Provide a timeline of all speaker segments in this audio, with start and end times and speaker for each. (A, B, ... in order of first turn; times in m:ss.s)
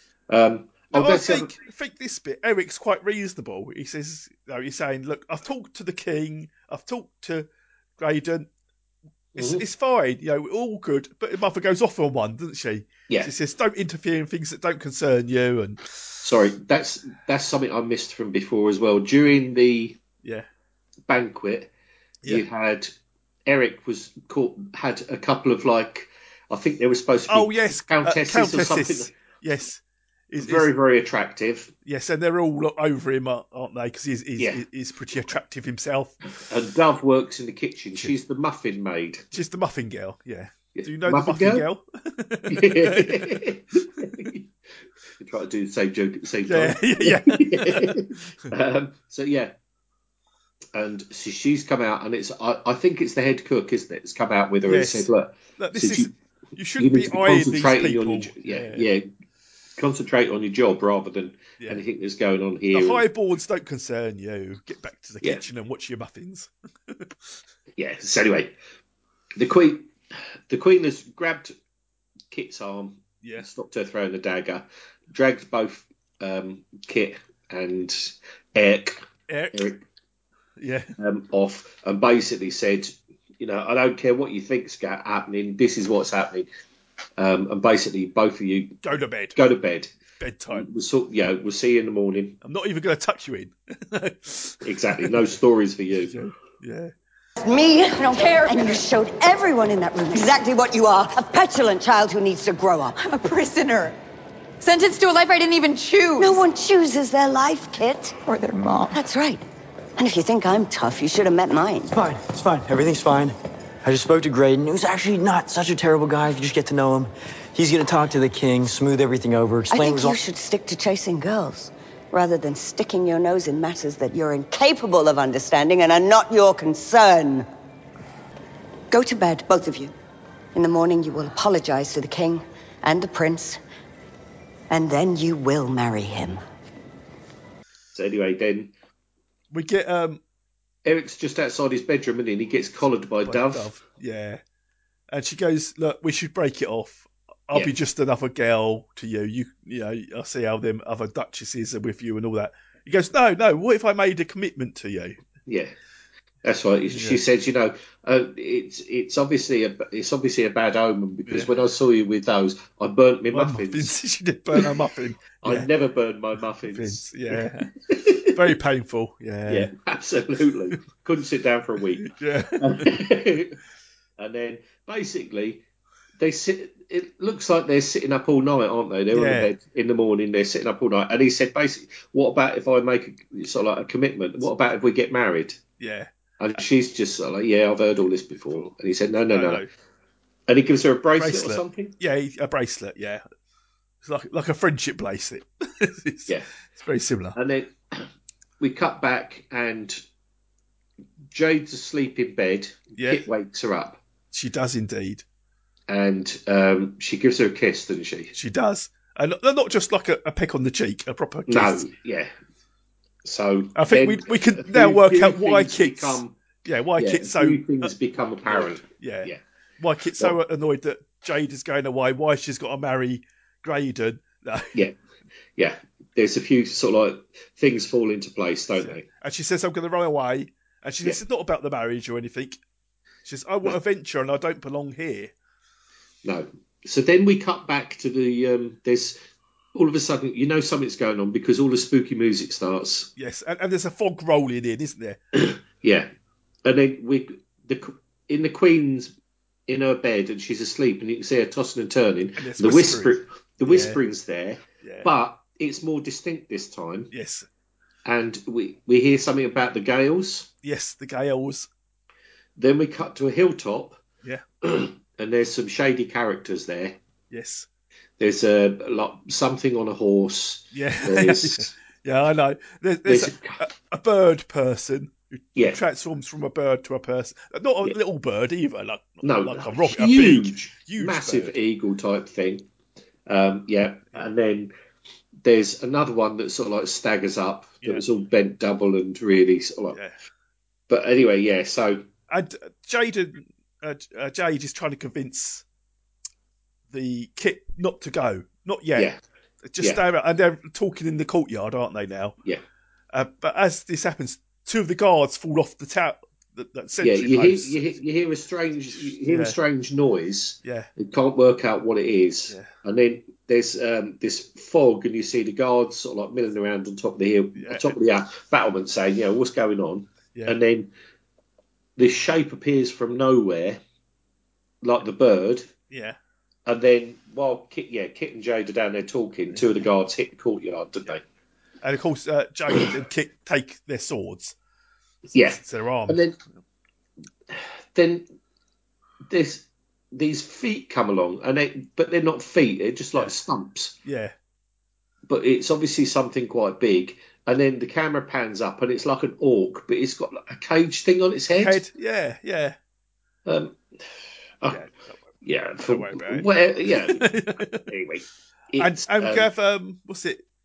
0:00.3-0:01.5 A
0:00.9-0:07.5 B
0:08.0-0:08.5 B
0:09.4-0:15.8 B
0:09.4-0:09.6 A
0:16.2-0:20.0 A
0:21.1-0:21.7 A
0:22.3-0:22.9 A
0:23.5-0:29.1 A
0:27.3-0:30.7 B
0:30.4-0:31.7 A
0:31.8-0:36.2 B
0:36.5-0:39.3 A
0:39.3-0:43.4 B
0:40.8-0:41.7 A
0:42.5-0:44.4 A
0:45.2-0:49.5 A
0:46.5-0:48.0 B
0:50.7-0:56.1 A
0:54.7-0:58.9 B
0:56.8-0:59.0 A
0:59.8-1:03.0 A
1:02.7-1:07.1 B
1:07.8-1:08.5 A
1:09.4-1:09.9 A
1:10.5-1:11.5 A
1:12.3-1:19.0 A
1:19.3-1:19.7 B
1:19.6-1:19.8 A
1:20.6-1:20.9 B
1:21.0-1:26.5 A
1:27.2-1:28.8 A
1:28.8-1:29.4 B
1:29.4-1:29.9 A
1:30.2-1:30.7 B
1:30.5-1:32.4 A
1:32.4-1:35.3 B
1:34.6-1:36.2 A
1:36.1-1:36.9 B
1:37.4-1:43.0 C
1:38.0-1:38.8 D
1:43.0-1:44.0 D
1:44.6-1:46.4 D
1:46.2-1:48.2 C
1:48.3-1:49.0 D
1:48.9-1:49.4 C
1:50.0-1:51.9 C
1:51.9-2:00.2 E
1:59.7-2:07.5 C
2:08.9-2:09.9 C
2:10.6-2:13.6 C
2:14.7-2:16.4 C
2:18.0-2:18.7 A
2:19.5-2:20.2 B
2:20.8-2:23.7 A
2:23.2-2:24.4 B
2:25.1-2:35.2 B
2:35.5-2:35.7 A
2:36.4-2:43.9 A
2:36.9-2:37.2 B
2:41.3-2:41.5 B
2:43.3-2:45.7 B
2:45.4-2:48.3 A
2:46.7-2:47.7 B
2:48.3-2:49.7 B
2:49.5-2:53.6 A
2:52.0-2:52.9 B
2:54.2-2:55.6 A
2:56.2-3:05.6 A
2:59.1-2:59.5 B
3:05.8-3:06.1 B
3:06.4-3:09.6 A
3:09.3-3:09.7 B
3:10.5-3:11.9 A
3:11.2-3:13.2 B
3:14.0-3:17.4 B
3:17.4-3:18.1 A
3:18.6-3:20.0 A
3:21.3-3:24.0 A
3:23.0-3:23.2 B
3:24.3-3:25.2 B
3:25.9-3:28.3 A
3:28.4-3:31.8 B
3:31.5-3:32.3 A
3:33.2-3:36.3 A
3:33.8-3:37.9 B
3:37.0-3:39.4 A
3:38.5-3:44.9 B
3:45.6-3:49.0 A
3:48.8-3:52.6 B
3:53.3-3:55.3 B
3:56.2-3:59.2 A
3:59.8-4:03.1 A
4:03.2-4:05.2 B
4:05.4-4:06.1 A
4:06.6-4:09.1 A
4:09.7-4:17.1 A
4:12.4-4:14.0 B
4:14.8-4:15.1 B
4:17.1-4:17.5 B
4:18.1-4:20.5 A
4:20.6-4:21.7 B
4:22.6-4:24.0 A
4:24.6-4:27.0 A
4:27.3-4:27.7 B
4:28.2-4:31.7 A
4:30.7-4:41.6 B
4:33.1-4:33.6 A
4:39.2-4:42.7 A
4:43.3-4:44.7 A
4:45.4-4:50.0 A
4:50.9-4:52.0 A
4:52.3-4:55.6 B
4:56.9-4:59.1 B
4:59.6-5:02.4 B
5:03.1-5:08.0 B
5:07.0-5:20.9 A
5:08.9-5:09.6 B
5:10.6-5:10.9 B
5:17.6-5:18.0 B
5:22.0-5:23.8 A
5:24.8-5:25.7 A
5:25.9-5:26.2 B
5:26.7-5:31.2 A
5:31.8-5:34.6 B
5:35.3-5:36.2 B
5:35.3-5:36.3 A
5:37.5-5:38.2 A
5:39.3-5:44.0 A
5:44.0-5:44.3 B
5:45.3-5:51.8 A
5:51.6-5:52.8 B
5:53.5-5:53.8 A
5:54.7-5:55.3 B
5:55.4-5:57.3 A
5:55.8-5:57.8 B
5:57.9-5:59.5 A
5:58.8-6:00.4 B